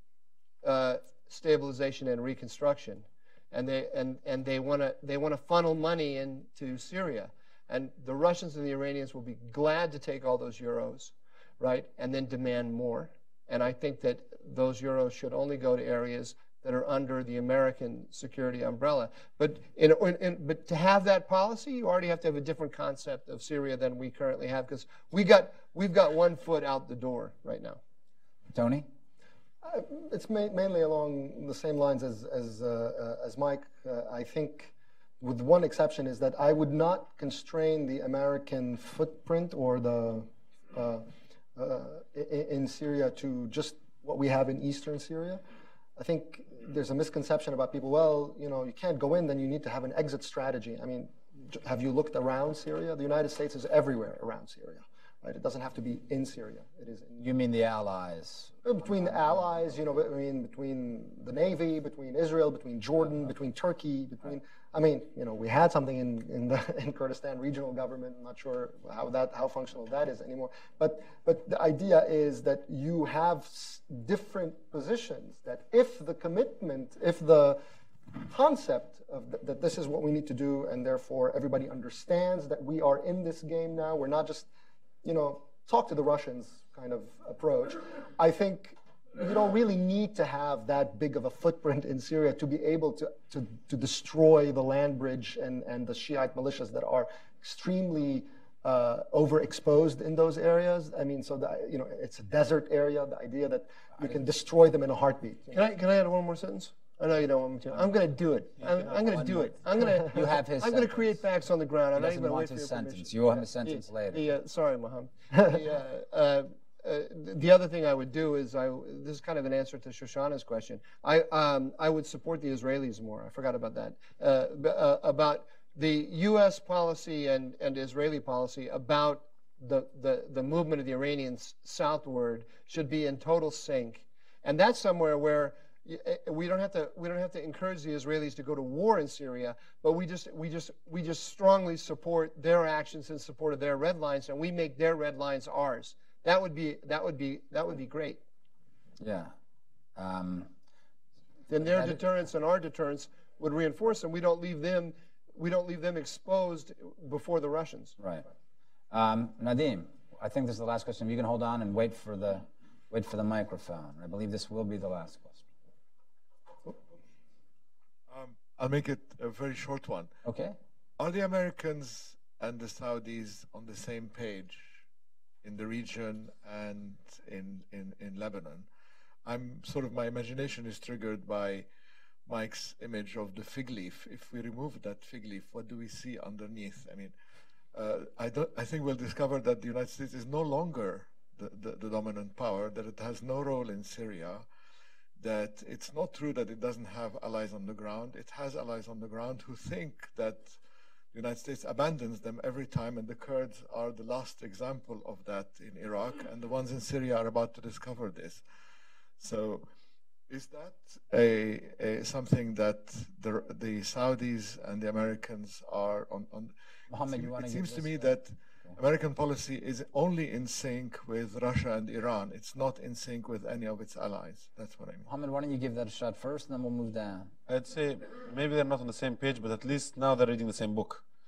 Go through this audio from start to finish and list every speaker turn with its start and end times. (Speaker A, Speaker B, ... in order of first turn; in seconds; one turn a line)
Speaker A: 0.6-27.8
Speaker B: 28.5-28.9
Speaker C: 29.6-45.4
Speaker C: 46.0-57.2
Speaker B: 57.2-59.1
Speaker C: 58.6-77.6
Speaker C: 78.2-84.5
Speaker C: 85.0-105.6
Speaker A: 105.5-148.2
Speaker B: 109.2-111.2
Speaker B: 111.9-114.2
Speaker B: 149.0-149.3
Speaker B: 149.9-150.5
Speaker A: 151.5-157.9
Speaker B: 151.6-152.0
Speaker B: 158.0-158.2
Speaker B: 158.9-165.5
Speaker D: 168.1-170.1
Speaker B: 170.2-170.5
Speaker D: 171.0-174.8
Speaker D: 175.4-178.7
Speaker D: 179.2-181.7
Speaker D: 182.2-187.1
Speaker D: 187.7-194.4
Speaker D: 195.2-200.6
Speaker D: 201.1-208.4
Speaker D: 209.2-209.7
Speaker D: 210.3-216.5
Speaker B: 216.9-218.8
Speaker D: 217.0-225.1
Speaker B: 225.1-227.3
Speaker E: 227.5-231.0